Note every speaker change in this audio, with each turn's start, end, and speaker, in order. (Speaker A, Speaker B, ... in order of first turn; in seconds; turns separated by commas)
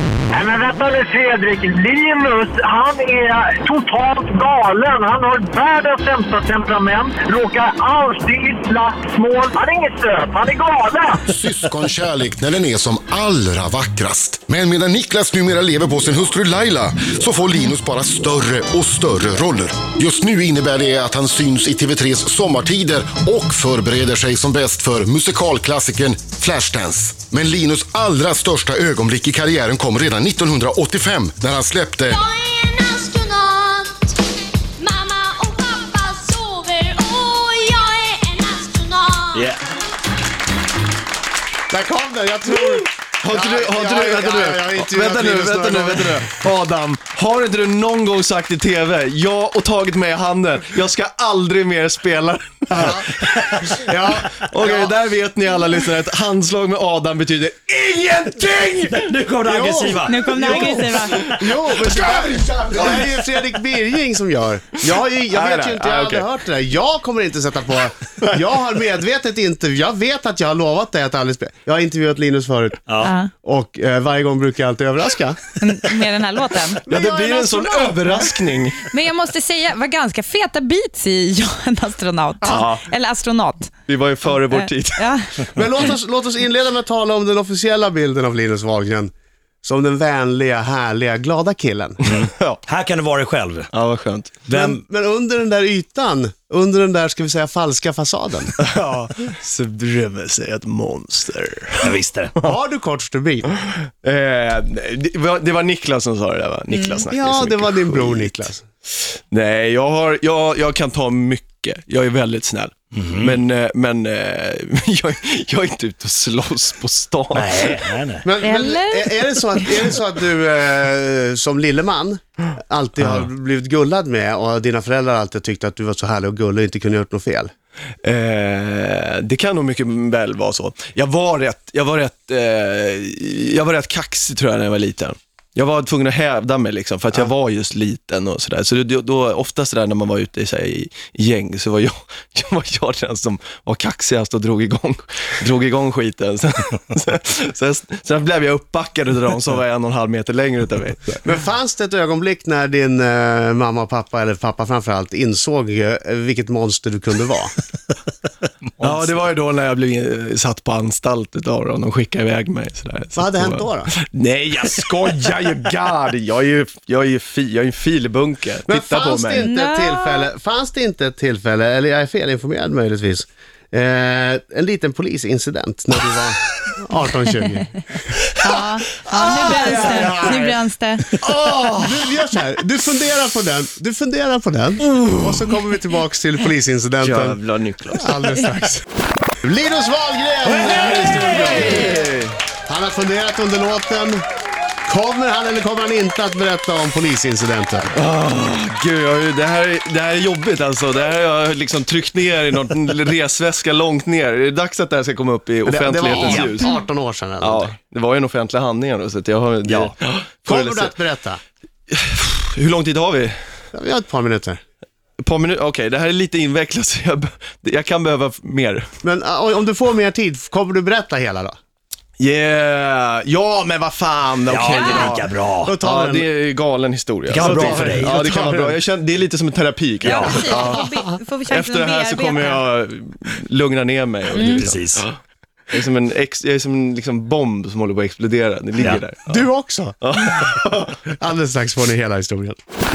Speaker A: 0.3-11.3, Speaker B: 11.2-32.2, Speaker C: 32.1-34.2, Speaker C: 34.8-39.5, Speaker D: 39.4-39.6, Speaker E: 41.7-46.3, Speaker F: 42.5-53.7, Speaker E: 52.7-53.1, Speaker E: 53.7-55.0, Speaker F: 54.3-59.1, Speaker D: 58.9-61.4, Speaker E: 59.4-75.5, Speaker G: 60.1-61.3, Speaker F: 60.2-63.4, Speaker F: 64.8-66.3, Speaker D: 72.9-73.1, Speaker G: 73.0-73.3, Speaker G: 75.6-76.8, Speaker E: 76.8-78.1, Speaker F: 76.9-78.8, Speaker G: 78.1-83.7, Speaker F: 82.4-82.9, Speaker F: 83.9-85.1, Speaker G: 84.5-85.4, Speaker E: 85.5-89.1, Speaker E: 89.6-92.0, Speaker D: 92.0-93.7, Speaker F: 92.1-92.6, Speaker F: 93.7-94.5, Speaker D: 94.5-94.8, Speaker E: 94.5-98.5, Speaker F: 98.6-102.5, Speaker D: 101.8-102.3, Speaker E: 102.4-103.5, Speaker F: 103.7-108.3, Speaker E: 107.1-108.6, Speaker F: 109.3-118.0, Speaker D: 113.0-113.3, Speaker D: 117.3-118.2, Speaker E: 118.2-127.5, Speaker G: 118.4-119.6, Speaker D: 123.0-123.3, Speaker F: 128.0-151.2, Speaker E: 151.2-157.5, Speaker F: 158.8-169.5, Speaker E: 163.2-163.9, Speaker E: 168.7-177.8, Speaker G: 169.3-170.3, Speaker G: 178.4-181.2, Speaker F: 179.0-180.4, Speaker E: 179.5-180.5, Speaker F: 181.1-182.1, Speaker E: 181.2-187.4, Speaker F: 184.8-185.6, Speaker F: 187.0-188.2, Speaker E: 187.9-188.8, Speaker E: 189.4-192.0, Speaker F: 190.8-192.4, Speaker E: 192.7-194.2, Speaker E: 194.8-197.9, Speaker F: 197.9-206.7, Speaker E: 205.6-207.8, Speaker G: 206.5-206.9, Speaker F: 207.4-211.0, Speaker E: 209.6-209.9, Speaker E: 210.5-211.4, Speaker F: 211.9-213.3, Speaker E: 213.7-214.6, Speaker F: 215.2-218.9, Speaker E: 219.0-221.5, Speaker F: 222.2-230.8, Speaker D: 224.5-225.8, Speaker G: 224.7-225.1, Speaker E: 225.6-226.2, Speaker D: 227.3-228.1, Speaker E: 227.4-228.8, Speaker D: 230.0-230.5, Speaker G: 230.1-232.6, Speaker E: 230.5-230.8, Speaker F: 231.5-235.2, Speaker G: 234.3-234.7, Speaker D: 234.4-235.0, Speaker F: 235.7-239.5, Speaker E: 239.3-242.6, Speaker F: 240.0-240.9